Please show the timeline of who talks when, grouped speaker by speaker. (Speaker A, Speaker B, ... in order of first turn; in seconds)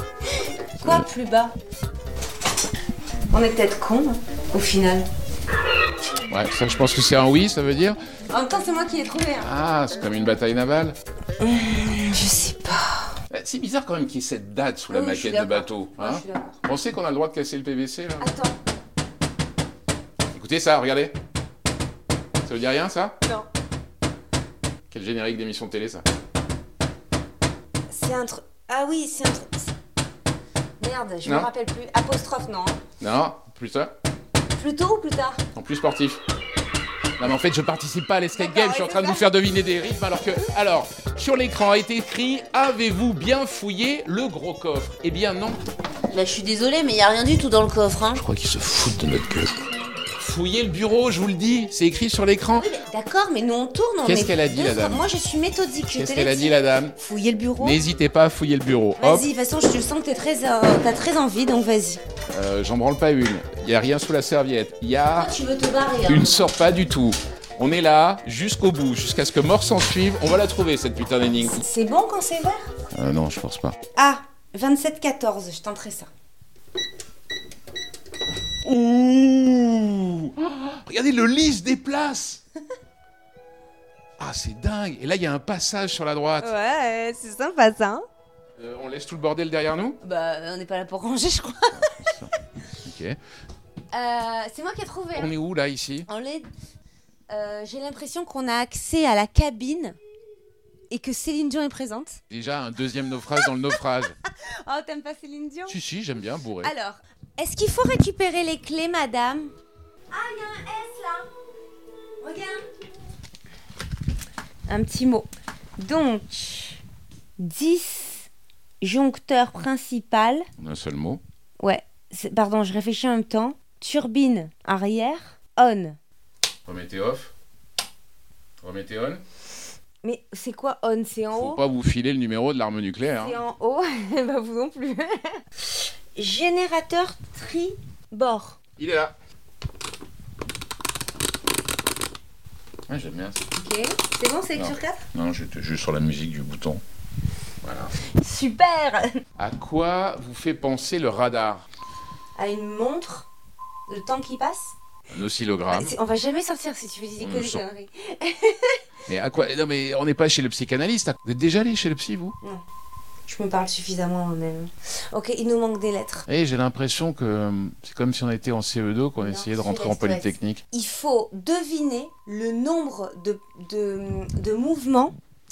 Speaker A: 0.3-1.5, 3.3-5.1, 8.3-9.5, 11.4-13.2, 14.9-16.6, 18.2-18.6, 27.9-29.7, 30.8-32.8, 34.6-35.4, 38.4-39.3, 46.1-48.2, 52.5-57.8, 59.0-62.0, 65.2-66.5, 71.5-72.7, 73.9-76.1, 86.4-88.0, 90.0-92.0, 93.9-95.3, 96.1-96.5, 97.3-100.0, 100.9-102.2, 104.3-105.8, 106.6-109.5, 110.1-111.3, 112.2-112.6, 114.7-116.8, 117.4-118.3, 118.8-120.5, 121.6-126.0, 130.0-131.6, 133.1-138.6, 143.6-145.0, 148.1-149.2, 152.3-153.3, 153.9-154.7, 155.7-158.8, 163.3-166.3, 169.2-175.1
Speaker B: 6.3-8.0, 9.4-11.0, 13.3-18.3, 20.3-21.2, 22.4-23.2, 24.9-26.0, 33.0-33.9, 35.5-36.2, 37.2-45.6, 48.2-49.5, 50.2-52.7, 54.0-55.0, 55.9-57.0, 57.6-59.3, 62.3-65.3, 66.0-71.6, 72.9-73.8, 78.6-82.4, 84.2-86.5, 88.6-90.0, 91.7-93.2, 95.1-96.1, 102.3-104.2, 105.7-106.7, 120.6-121.2, 126.7-127.3, 128.6-129.2, 131.3-133.4, 138.8-139.1, 142.9-143.4, 144.6-146.8, 147.6-147.9, 149.4-151.6, 155.1-155.9, 157.2-157.6, 159.1-162.3, 166.3-170.6